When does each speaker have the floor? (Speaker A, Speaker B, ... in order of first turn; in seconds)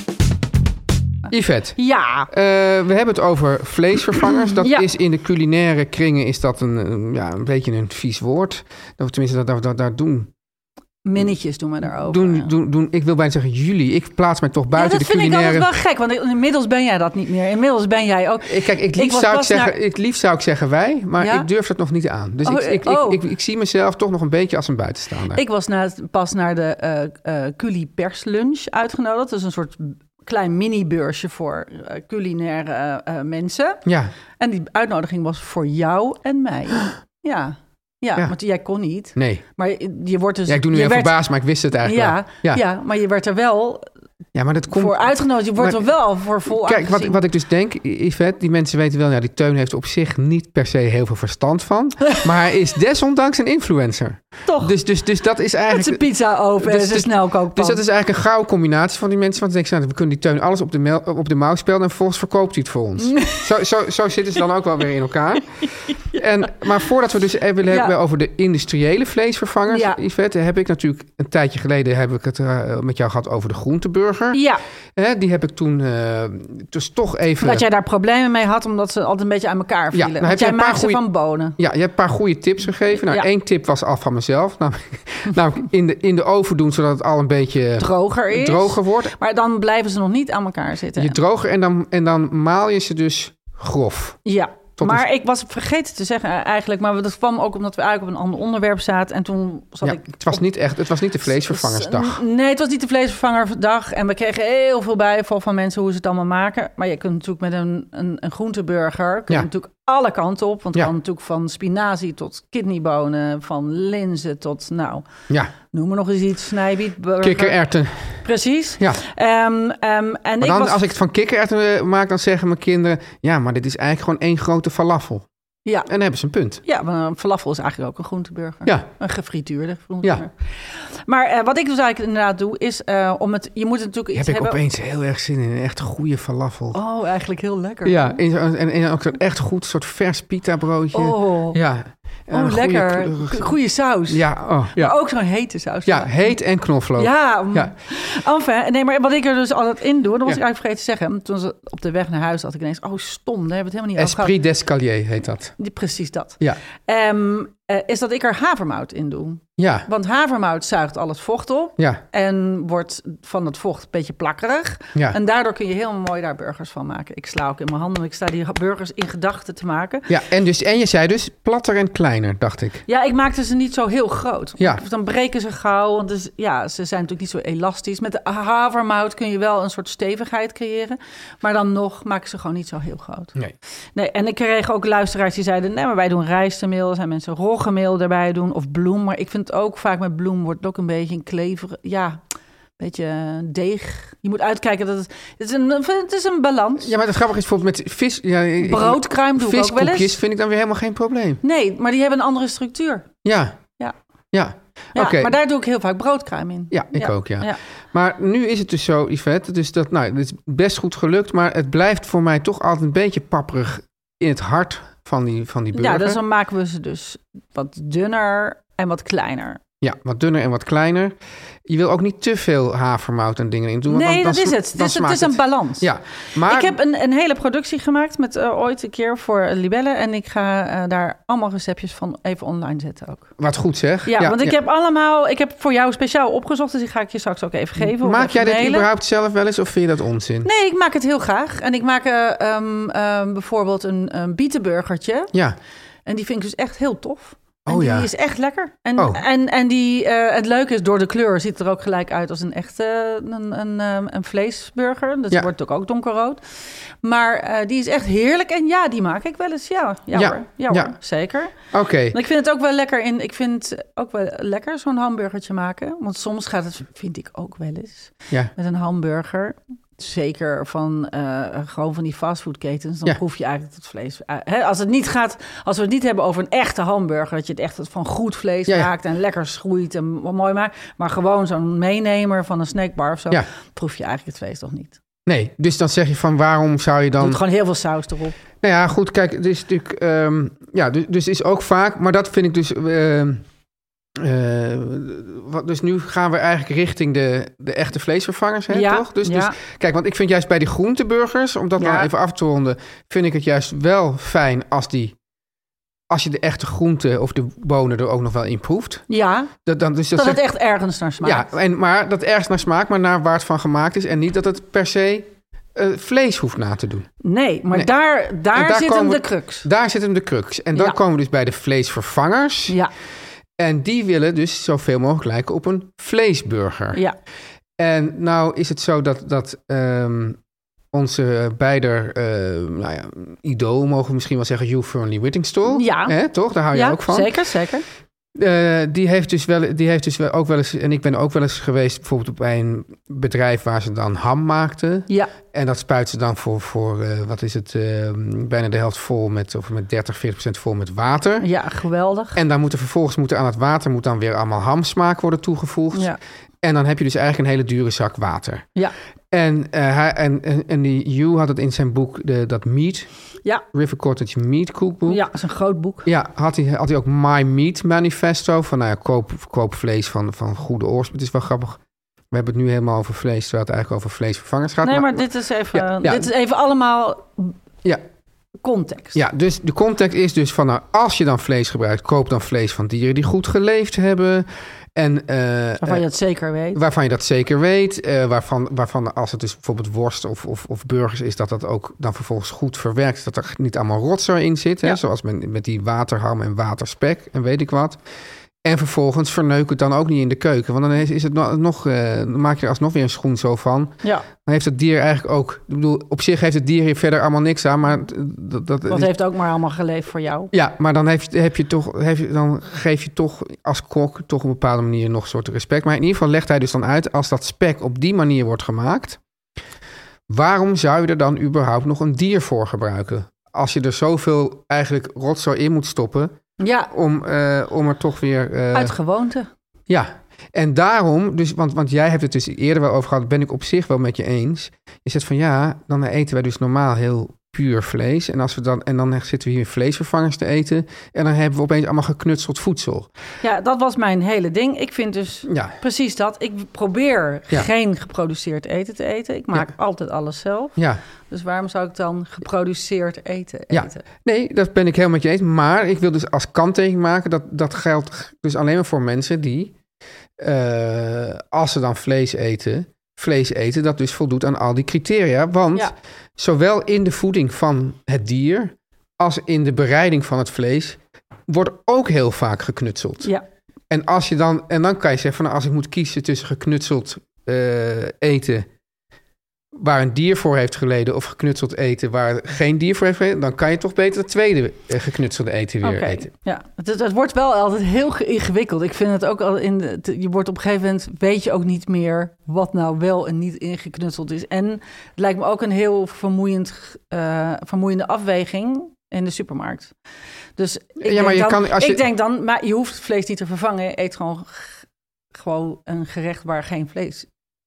Speaker A: 1.3-10.3, 11.9-15.7, 18.4-25.4, 33.9-34.1, 39.2-39.4, 40.5-42.6, 44.4-56.1, 56.6-74.4, 75.0-77.7, 79.9-81.0, 81.6-89.2, 91.0-94.2, 94.8-95.0, 99.8-102.2, 117.2-118.2, 120.4-125.3, 125.9-126.6, 134.1-136.8, 137.8-143.5, 144.1-145.0, 145.9-147.7, 154.0-155.6, 159.6-159.9, 170.1-172.8, 196.8-201.4, 203.2-203.6, 204.3-205.3, 206.7-216.2, 219.8-226.8, 233.4-234.6, 237.8-240.5, 247.7-248.1, 249.0-249.2, 260.1-261.0, 261.7-262.2, 285.3-287.4, 288.6-293.4, 294.1-305.2, 306.1-309.1, 309.6-310.4, 311.2-317.1, 318.5-322.8, 323.6-327.0, 327.8-330.4, 330.9-337.4, 338.4-351.5, 352.3-358.7, 359.3-363.1, 363.7-365.2, 366.1-371.8, 372.3-376.3, 379.1-386.1, 386.7-398.0, 398.6-409.1, 410.5-419.2, 420.3-426.4, 426.9-428.9, 429.9-443.1, 445.5-445.8, 453.7-459.7, 460.4-473.3, 473.9-478.7, 479.7-486.3, 501.0-502.1
Speaker B: 1.8-2.3, 4.5-4.9, 11.1-12.5, 14.8-19.8, 21.2-21.5, 22.4-23.2, 25.3-33.8, 34.4-41.2, 41.8-43.9, 44.7-47.2, 54.5-54.7, 55.7-57.8, 63.0-63.5, 66.0-66.2, 67.7-68.0, 69.7-70.0, 74.3-74.6, 77.4-81.6, 82.9-83.3, 87.8-91.2, 94.2-100.4, 101.5-115.1, 115.6-117.6, 118.2-120.8, 126.7-134.6, 136.7-138.2, 140.9-141.6, 142.3-146.3, 147.0-154.3, 155.6-170.1, 172.9-183.3, 183.9-192.2, 192.8-196.9, 198.6-200.2, 201.4-203.1, 204.9-207.6, 215.7-219.6, 223.9-225.9, 226.4-233.3, 234.1-238.9, 240.4-245.3, 246.1-256.4, 257.0-261.6, 262.1-285.0, 287.2-288.4, 298.7-299.6, 301.8-302.1, 309.1-309.5, 310.1-311.5, 317.2-319.7, 335.7-336.2, 336.7-337.9, 351.4-352.4, 355.9-356.2, 365.1-366.1, 374.8-377.6, 378.6-379.2, 385.8-386.8, 408.9-410.5, 426.6-426.9, 428.7-429.5, 443.4-450.8, 451.3-454.0, 485.8-499.9, 500.6-507.3